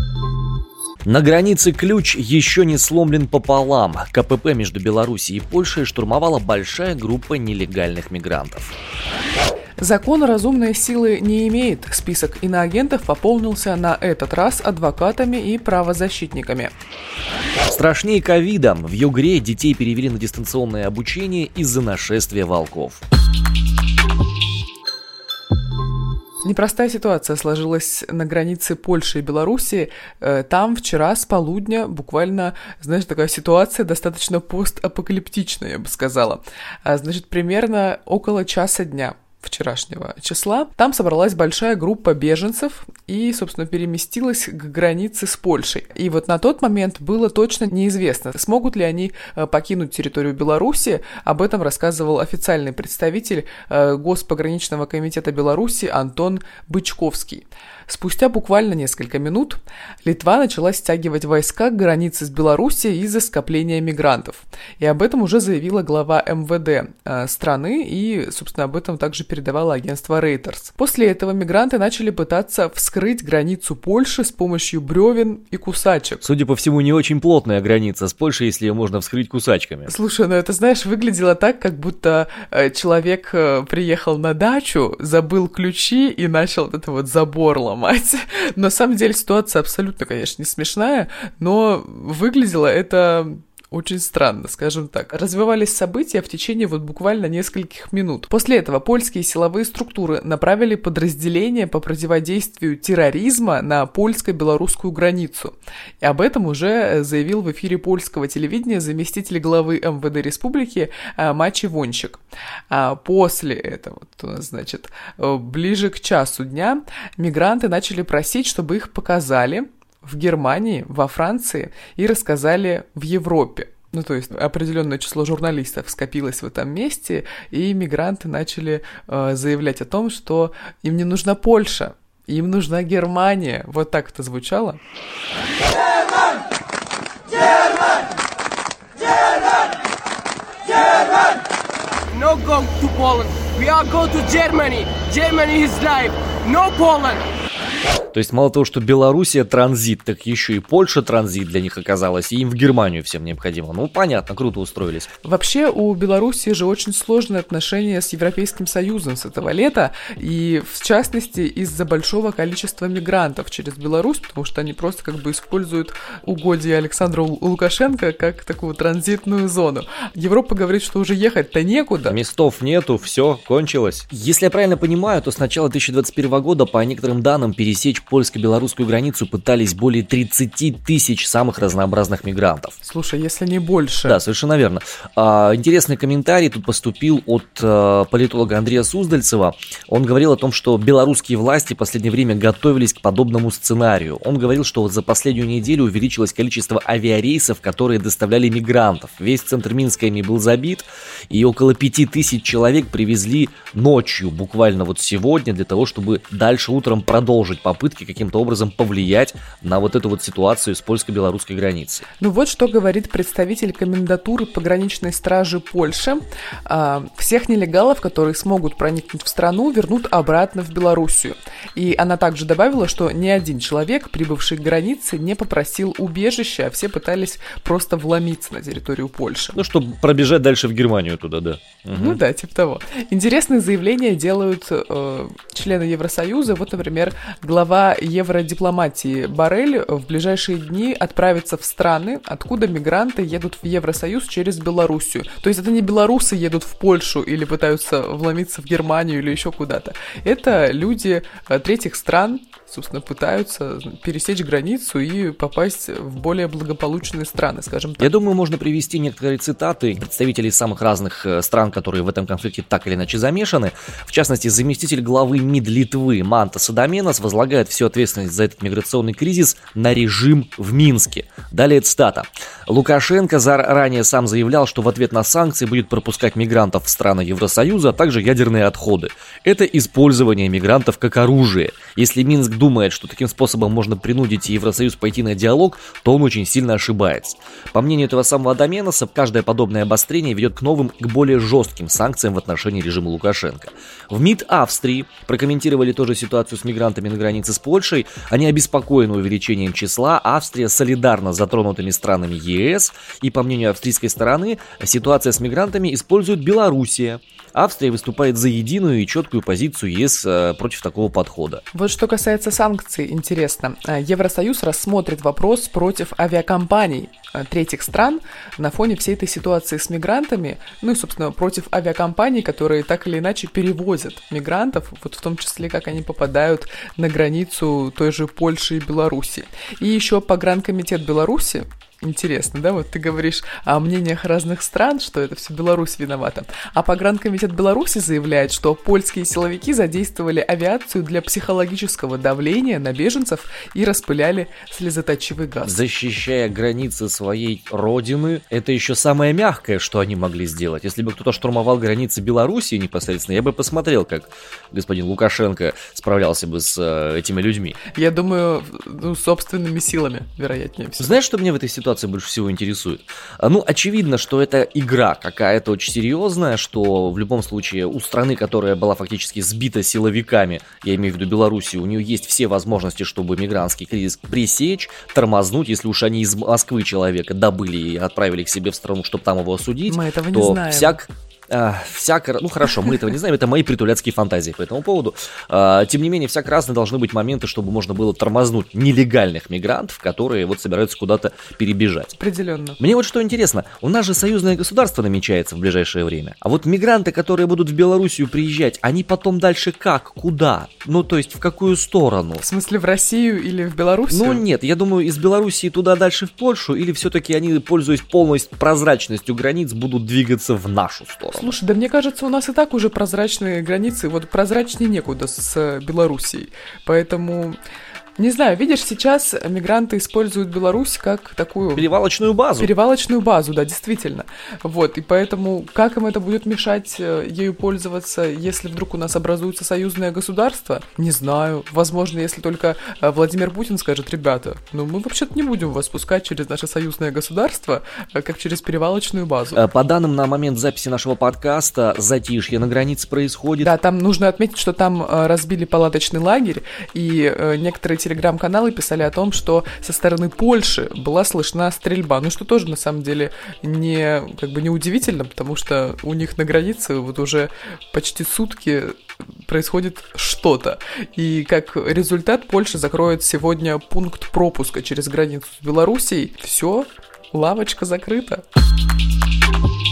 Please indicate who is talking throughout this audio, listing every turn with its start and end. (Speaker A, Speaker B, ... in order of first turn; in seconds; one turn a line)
Speaker A: 1.0-8.8
Speaker B: 9.8-16.7
Speaker A: 17.7-23.0
Speaker B: 26.4-76.2
Speaker A: 76.2-79.9
Speaker B: 79.9-134.8
Speaker C: 140.7-141.3
Speaker C: 142.1-147.3
Speaker A: 148.1-155.1
Speaker B: 155.2-172.2
Speaker A: 172.1-182.8
Speaker B: 182.8-184.2
Speaker A: 184.0-212.1
Speaker B: 212.2-229.6
Speaker A: 229.5-232.2
Speaker B: 231.9-258.1
Speaker A: 258.0-311.6
Speaker B: 311.7-345.8
Speaker A: 345.6-357.8
Speaker B: 357.9-361.2
Speaker A: 361.0-392.1
Speaker B: 379.9-381.0
Speaker B: 392.1-392.8
Speaker A: 392.8-402.4
Speaker B: 402.4-404.4
Speaker A: 404.1-411.5
Speaker B: 411.3-417.6
Speaker B: 418.2-421.9
Speaker A: 421.8-422.7
Speaker B: 422.6-439.6
Speaker A: 439.5-443.7
Speaker B: 443.6-468.4